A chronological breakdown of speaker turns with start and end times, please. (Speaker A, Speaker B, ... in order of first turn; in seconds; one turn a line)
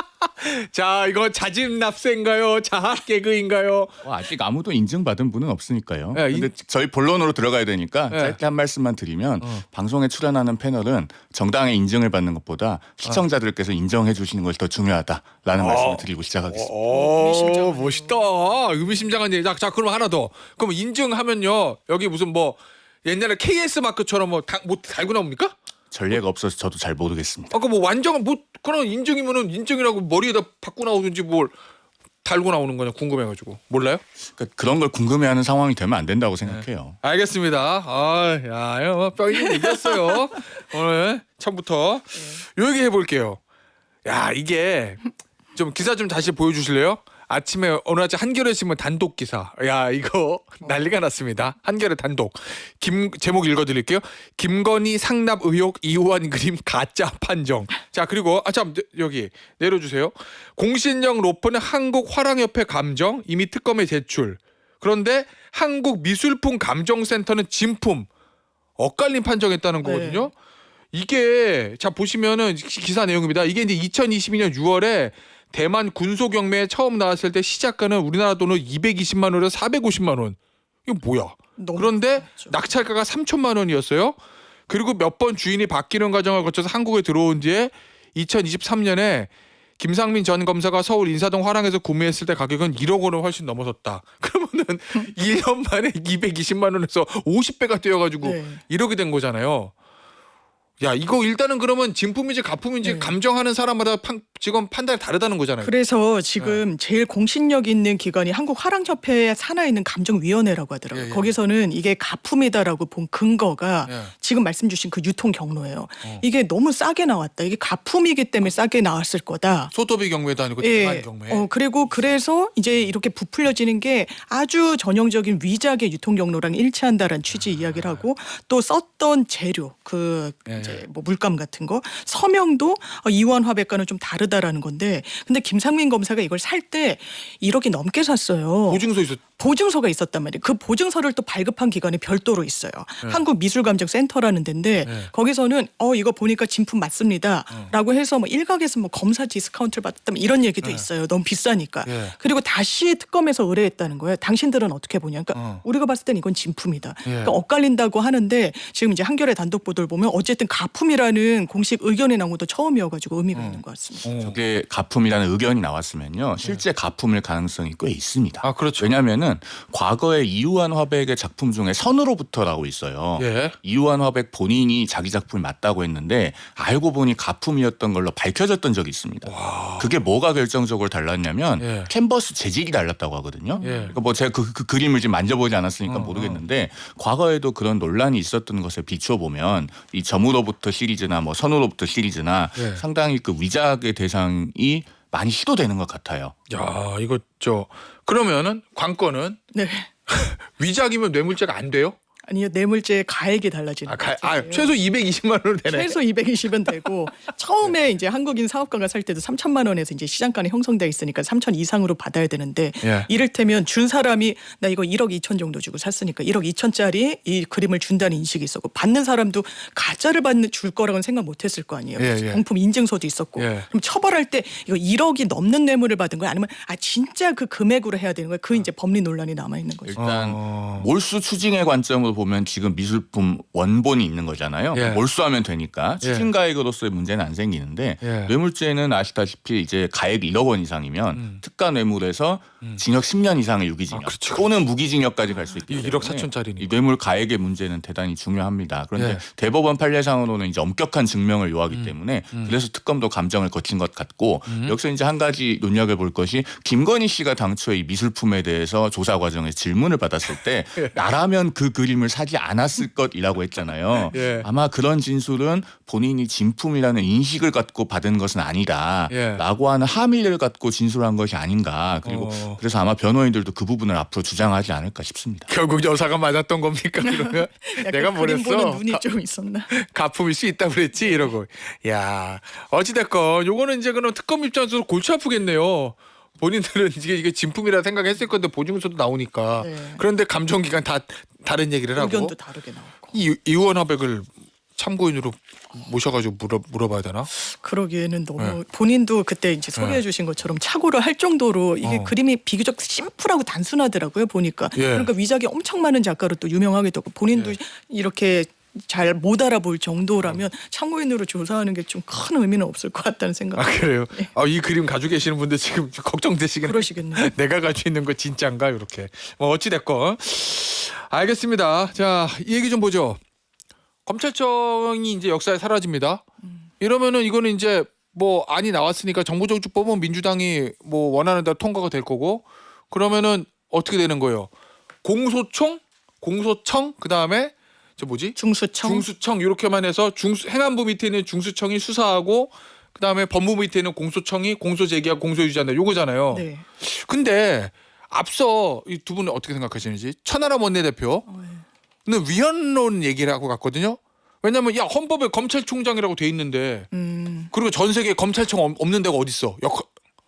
Speaker A: 0.4-4.0
Speaker B: 4.0-16.7
Speaker A: 6.1-6.5
Speaker A: 8.1-8.4
Speaker A: 15.6-25.5
Speaker C: 16.9-18.5
Speaker B: 25.9-27.6
Speaker A: 27.5-31.5
Speaker A: 32.2-34.0
Speaker B: 34.3-37.0
Speaker A: 36.4-43.4
Speaker A: 44.0-68.1
Speaker A: 68.8-70.3
Speaker C: 69.8-70.3
Speaker A: 70.9-84.2
Speaker C: 81.6-82.5
Speaker A: 84.7-99.7
Speaker C: 98.2-98.6
Speaker A: 100.8-105.7
Speaker C: 102.8-103.1
Speaker C: 105.6-119.7
Speaker A: 106.4-106.6
Speaker A: 110.9-111.4
Speaker A: 113.9-114.1
Speaker A: 119.7-121.5
Speaker C: 120.6-164.1
Speaker A: 127.3-128.0
Speaker A: 130.5-130.8
Speaker A: 138.7-139.2
Speaker A: 144.8-145.1
Speaker A: 151.8-152.2
Speaker A: 155.3-155.6
Speaker A: 157.0-157.3
Speaker A: 163.3-164.4
Speaker B: 164.2-196.3
Speaker A: 168.4-168.9
Speaker A: 173.2-173.6
Speaker A: 179.2-179.9
Speaker A: 181.6-181.9
Speaker C: 183.6-183.9
Speaker A: 183.6-184.0
Speaker A: 185.8-186.4
Speaker A: 192.5-192.8
Speaker A: 196.5-199.4
Speaker C: 199.5-199.9
Speaker A: 200.1-201.9
Speaker C: 202.2-204.8
Speaker A: 203.8-206.0
Speaker C: 205.7-230.0
Speaker A: 212.8-213.1
Speaker A: 222.0-222.4
Speaker A: 223.4-223.7
Speaker B: 229.8-275.5
Speaker A: 229.9-230.9
Speaker A: 234.7-235.0
Speaker A: 236.0-236.3
Speaker A: 238.0-238.3
Speaker A: 241.1-241.4
Speaker A: 243.9-244.5
Speaker A: 245.7-246.7
Speaker A: 248.9-249.2
Speaker A: 251.7-252.6
Speaker A: 254.5-254.8
Speaker A: 260.3-261.0
Speaker C: 264.1-264.4
Speaker A: 264.1-264.5
Speaker A: 269.1-269.4
Speaker A: 272.0-272.6
Speaker A: 275.5-279.0
Speaker C: 277.0-279.7
Speaker A: 279.7-292.4
Speaker C: 281.0-281.3
Speaker C: 289.6-290.0
Speaker C: 291.9-293.1
Speaker A: 293.1-297.3
Speaker C: 297.4-314.3
Speaker A: 299.8-300.0
Speaker A: 301.8-302.1
Speaker A: 304.7-305.1
Speaker A: 313.5-323.2
Speaker C: 316.6-317.3
Speaker A: 324.1-326.2
Speaker A: 326.8-334.5
Speaker A: 335.0-351.3
Speaker C: 338.4-339.1
Speaker C: 346.3-346.6
Speaker C: 351.2-351.6
Speaker A: 352.1-356.9
Speaker C: 356.9-357.5
Speaker A: 357.5-359.9